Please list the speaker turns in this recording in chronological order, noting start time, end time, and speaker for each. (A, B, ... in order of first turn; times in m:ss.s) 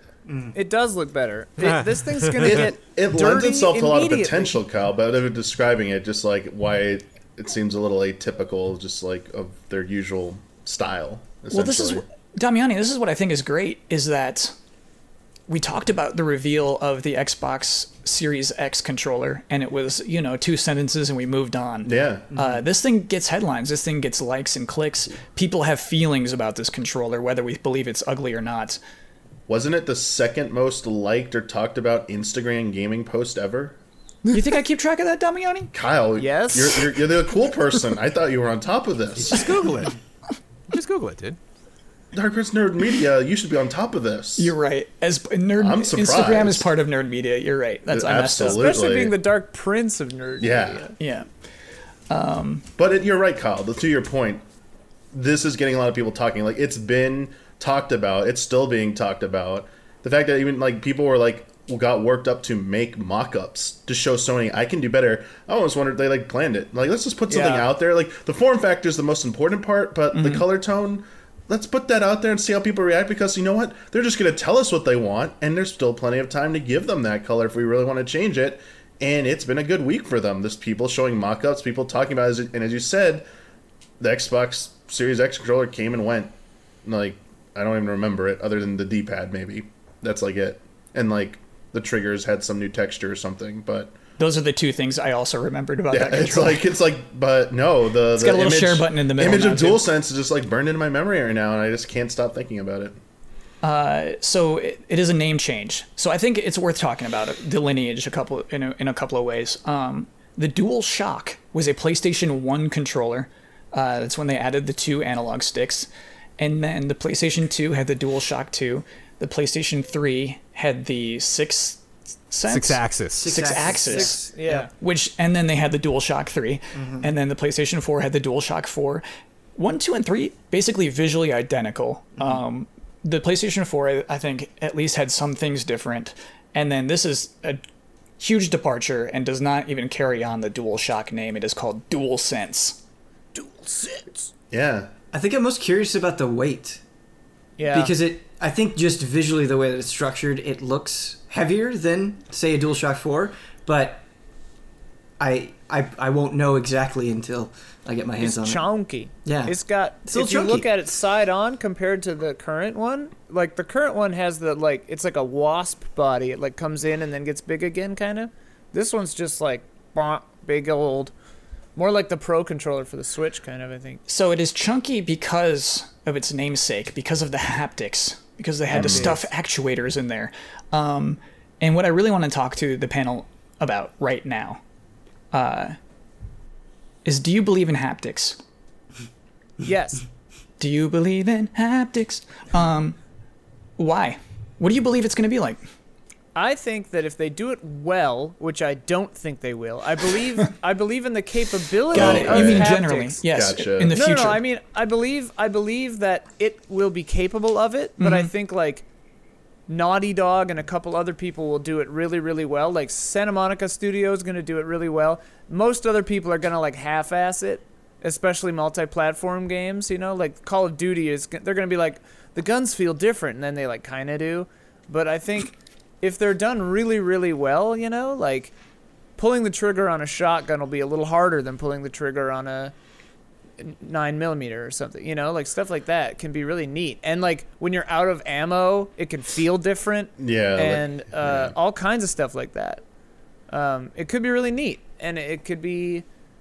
0:00.3-0:00.6 A
0:00.5-0:04.6 B
0:01.6-0:02.7 C
0:02.4-0:12.0 D
0:11.5-0:14.6 E
0:15.5-0:28.8 E
0:21.8-0:22.3 D
0:29.5-0:33.8 D
0:34.3-0:35.7 E
0:35.7-0:39.6 D
0:36.2-0:36.9 B
0:39.2-0:39.9 C
0:40.7-0:41.4 C
0:42.1-0:44.5 D
0:44.4-0:48.7 E
0:45.6-0:46.7 D
0:47.9-0:49.1 D
0:48.4-0:50.9 B
0:50.4-0:50.9 D
0:51.0-0:51.3 E
0:52.1-0:52.6 E
0:52.8-0:54.4 D
0:55.1-1:23.2 D
1:07.3-1:07.7 B
1:10.1-1:10.4 E
1:24.0-1:26.3 D
1:26.8-1:33.9 D
1:34.2-1:36.7 E
1:35.9-1:43.0 D
1:38.1-1:39.8 E
1:43.6-2:09.0 E
2:02.5-2:03.3 C
2:03.1-2:04.6 A
2:03.7-2:04.7 B
2:06.7-2:07.1 A
2:09.6-2:17.6 E
2:18.2-2:22.8 E
2:23.3-2:24.3 B
2:24.5-2:24.9 D
2:25.1-2:26.8 A
2:27.6-2:27.9 B
2:27.7-2:34.0 A
2:35.2-2:38.6 A
2:38.2-2:51.1 B
2:39.2-2:40.7 A
2:51.7-2:54.0 B
2:54.1-3:04.6 E
2:58.7-2:59.2 D
2:58.7-2:59.2 B
3:05.3-3:05.8 E
3:07.0-3:08.4 E
3:09.6-3:10.0 B
3:10.6-3:13.0 E
3:13.8-3:15.6 E
3:16.3-3:23.2 B
3:21.9-3:24.4 E
3:21.9-3:22.8 D
3:23.3-3:24.0 D
3:23.9-3:28.8 B
3:28.0-3:28.3 E
3:29.7-3:48.5 B
3:49.2-3:52.7 B
3:53.6-4:02.8 B
4:00.2-4:01.5 D
4:03.5-4:06.0 B